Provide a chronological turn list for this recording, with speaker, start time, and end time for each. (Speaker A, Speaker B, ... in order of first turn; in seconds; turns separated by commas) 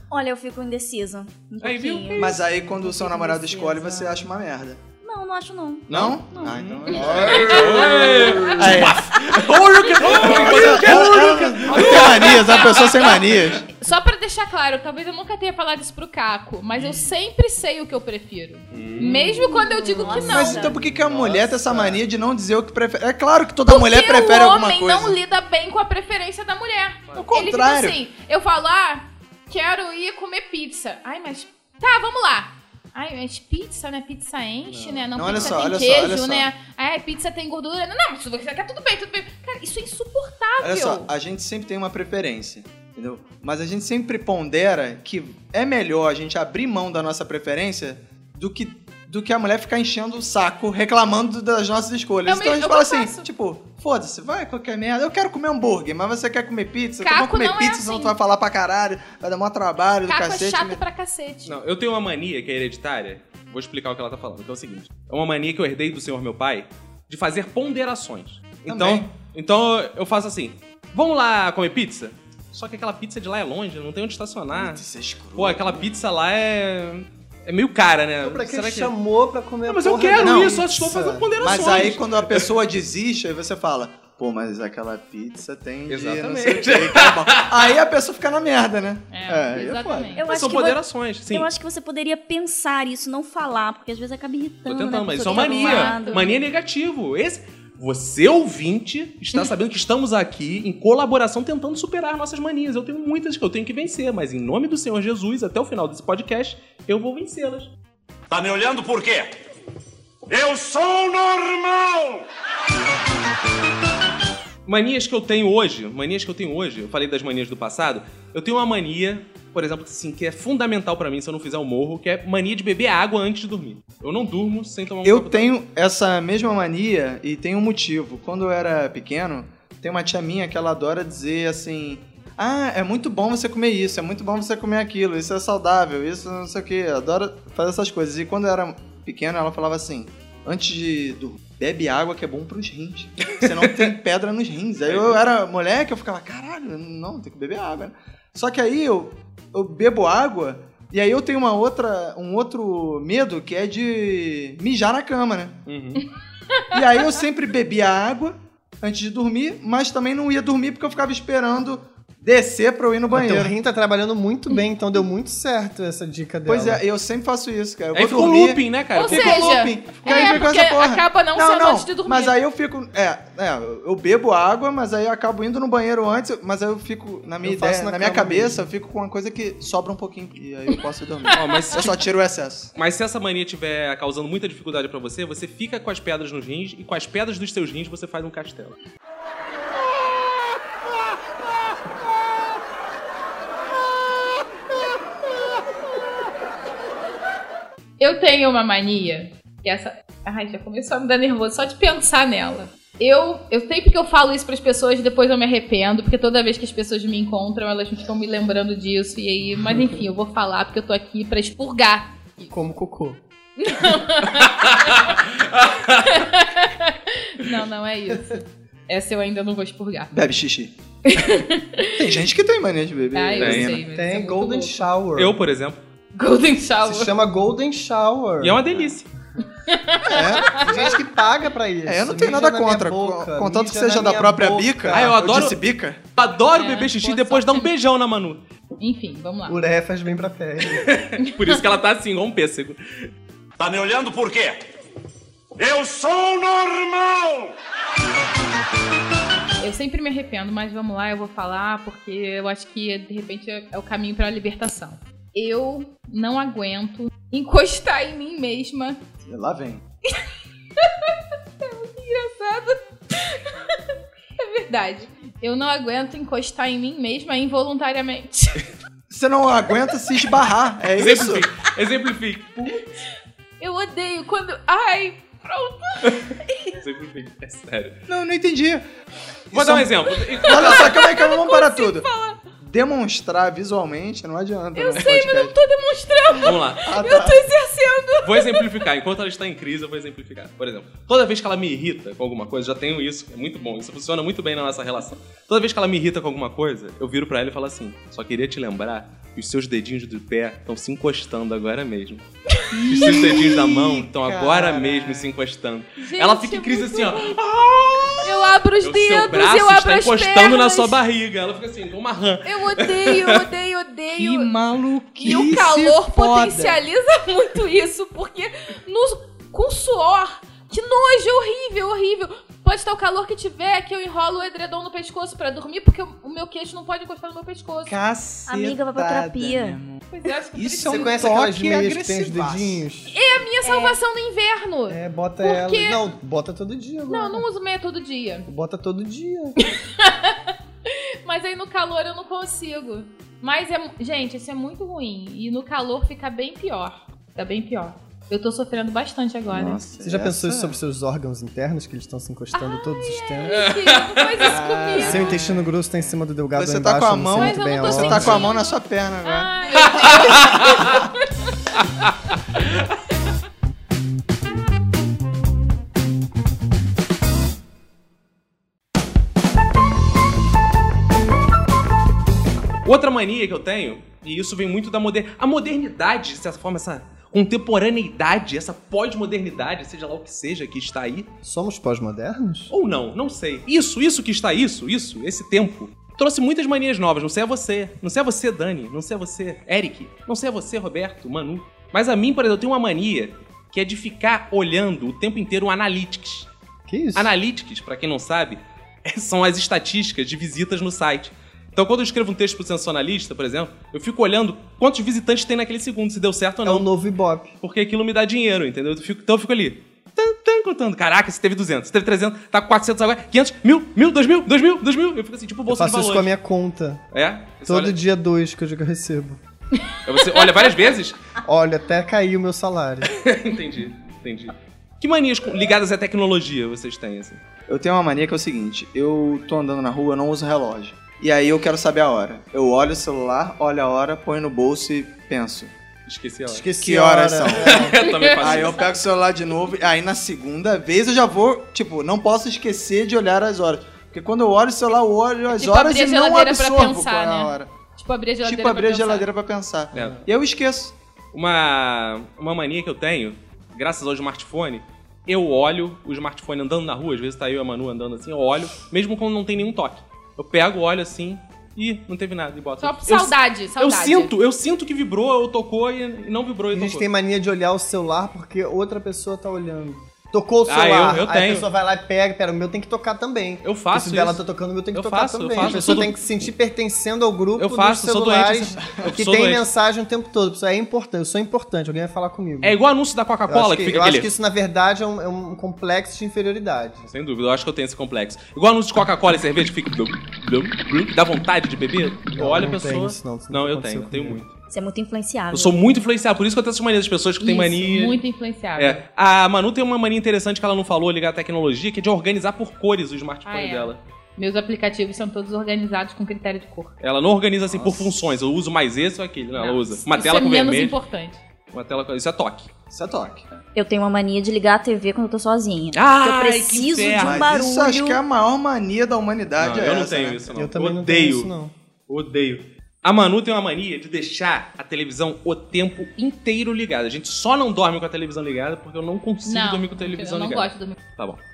Speaker A: 0.1-4.2, Speaker B: 1.6-2.4, Speaker C: 2.1-4.8, Speaker A: 5.0-6.5, Speaker C: 5.9-9.2, Speaker B: 5.9-13.4, Speaker D: 8.2-8.6, Speaker C: 10.0-13.6, Speaker D: 12.2-13.1, Speaker D: 13.7-20.7, Speaker B: 18.7-19.2, Speaker A: 19.0-20.8, Speaker C: 20.0-25.2, Speaker D: 23.7-41.1, Speaker C: 27.1-28.0, Speaker B: 34.7-35.6, Speaker C: 35.1-36.5, Speaker C: 40.6-60.8, Speaker D: 52.2-53.2, Speaker D: 57.0-58.1, Speaker D: 60.0-61.5, Speaker B: 61.5-74.8, Speaker C: 68.7-69.1, Speaker C: 74.5-75.9, Speaker B: 75.3-78.9, Speaker E: 78.2-81.3, Speaker B: 79.7-82.5, Speaker C: 80.2-80.6, Speaker C: 81.4-90.2, Speaker B: 85.9-87.8, Speaker D: 89.1-90.3, Speaker A: 90.2-96.4, Speaker B: 90.3-91.5, Speaker B: 94.7-107.7, Speaker D: 95.3-96.3, Speaker F: 108.3-109.3, Speaker F: 110.3-112.2, Speaker B: 114.7-125.5, Speaker C: 125.0-155.6, Speaker B: 143.6-143.9, Speaker B: 144.8-145.2, Speaker B: 155.7-156.0, Speaker C: 156.7-163.5, Speaker E: 163.1-166.8, Speaker C: 166.4-182.7, Speaker B: 167.9-169.6, Speaker D: 168.9-172.3, Speaker E: 177.4-178.7, Speaker B: 181.3-182.0, Speaker B: 182.8-188.8, Speaker D: 198.0-212.5, Speaker E: 212.5-213.2, Speaker D: 213.6-215.1, Speaker B: 214.6-216.2, Speaker D: 216.0-220.1, Speaker C: 220.1-220.7, Speaker D: 221.1-222.0, Speaker C: 221.9-223.8, Speaker D: 223.1-224.8, Speaker B: 223.4-223.8, Speaker E: 223.9-225.4, Speaker B: 225.2-225.8, Speaker D: 226.1-227.1, Speaker E: 226.8-228.8, Speaker B: 228.4-229.1, Speaker D: 229.7-230.9, Speaker C: 230.1-230.8, Speaker E: 230.5-235.2, Speaker C: 231.8-236.0, Speaker B: 234.9-235.6, Speaker B: 236.1-238.4, Speaker D: 236.5-237.7, Speaker D: 238.8-239.6, Speaker E: 239.4-240.9, Speaker B: 240.7-242.8, Speaker D: 241.2-241.6, Speaker F: 243.6-244.6, Speaker F: 245.6-247.5, Speaker D: 249.6-259.0, Speaker C: 259.2-259.8, Speaker D: 260.8-263.8, Speaker D: 264.4-268.6, Speaker C: 269.1-271.4, Speaker B: 270.9-272.8, Speaker D: 273.6-276.7, Speaker B: 276.8-278.0, Speaker C: 278.1-278.9, Speaker C: 279.5-282.1, Speaker B: 279.5-281.0, Speaker D: 280.4-282.4, Speaker C: 282.6-285.5, Speaker D: 284.8-288.8, Speaker B: 286.4-286.9, Speaker C: 286.8-287.5, Speaker B: 288.2-302.2, Speaker C: 302.7-305.3, Speaker B: 302.9-313.4, Speaker D: 306.0-307.4, Speaker D: 308.2-310.9, Speaker D: 312.4-314.5, Speaker C: 314.1-316.8, Speaker D: 315.2-327.9, Speaker C: 327.8-330.0, Speaker A: 328.5-329.8, Speaker D: 330.1-331.2, Speaker C: 330.5-332.8, Speaker E: 330.8-333.1, Speaker D: 333.1-336.1, Speaker A: 333.6-334.0, Speaker E: 334.9-337.4, Speaker D: 337.1-338.5, Speaker E: 338.5-339.6, Speaker D: 339.6-349.8, Speaker C: 349.5-350.8, Speaker E: 350.0-353.6, Speaker D: 352.5-355.3, Speaker B: 353.5-354.4, Speaker C: 354.4-355.7, Speaker E: 354.9-358.4, Speaker C: 356.5-361.0, Speaker D: 357.3-361.5, Speaker B: 360.1-360.8, Speaker B: 372.8-381.3, Speaker E: 381.4-382.7, Speaker B: 382.7-396.5, Speaker E: 396.9-397.3, Speaker B: 397.1-406.9, Speaker E: 406.6-407.5, Speaker B: 407.6-416.3, Speaker E: 415.7-417.0, Speaker B: 417.1-417.9, Speaker E: 417.6-419.4, Speaker D: 419.9-420.5, Speaker B: 420.0-421.2, Speaker E: 421.4-423.1, Speaker B: 423.1-427.4, Speaker C: 427.7-435.7, Speaker B: 436.1-436.7, Speaker E: 436.5-438.0, Speaker C: 436.8-447.7, Speaker B: 437.5-438.8, Speaker D: 438.0-438.6, Speaker D: 445.5-449.3, Speaker C: 448.4-450.9, Speaker B: 449.9-450.2, Speaker B: 451.3-467.1, Speaker D: 462.8-464.3, Speaker E: 466.7-482.8, Speaker B: 470.7-471.7, Speaker B: 473.6-476.2, Speaker B: 477.6-479.6, Speaker B: 482.6-484.3, Speaker E: 483.5-487.1, Speaker B: 487.1-494.5, Speaker E: 492.3-494.4, Speaker A: 494.7-495.8, Speaker B: 495.5-498.2, Speaker D: 497.4-499.0, Speaker B: 498.8-504.0, Speaker D: 503.4-506.9, Speaker B: 507.0-510.9, Speaker C: 507.6-508.3, Speaker D: 509.5-511.4, Speaker B: 511.7-512.7, Speaker C: 512.9-513.4, Speaker A: 513.7-518.2, Speaker B: 515.9-517.5, Speaker C: 517.1-520.4, Speaker B: 519.6-521.5, Speaker E: 520.5-521.7, Speaker B: 522.1-531.4, Speaker D: 529.5-531.0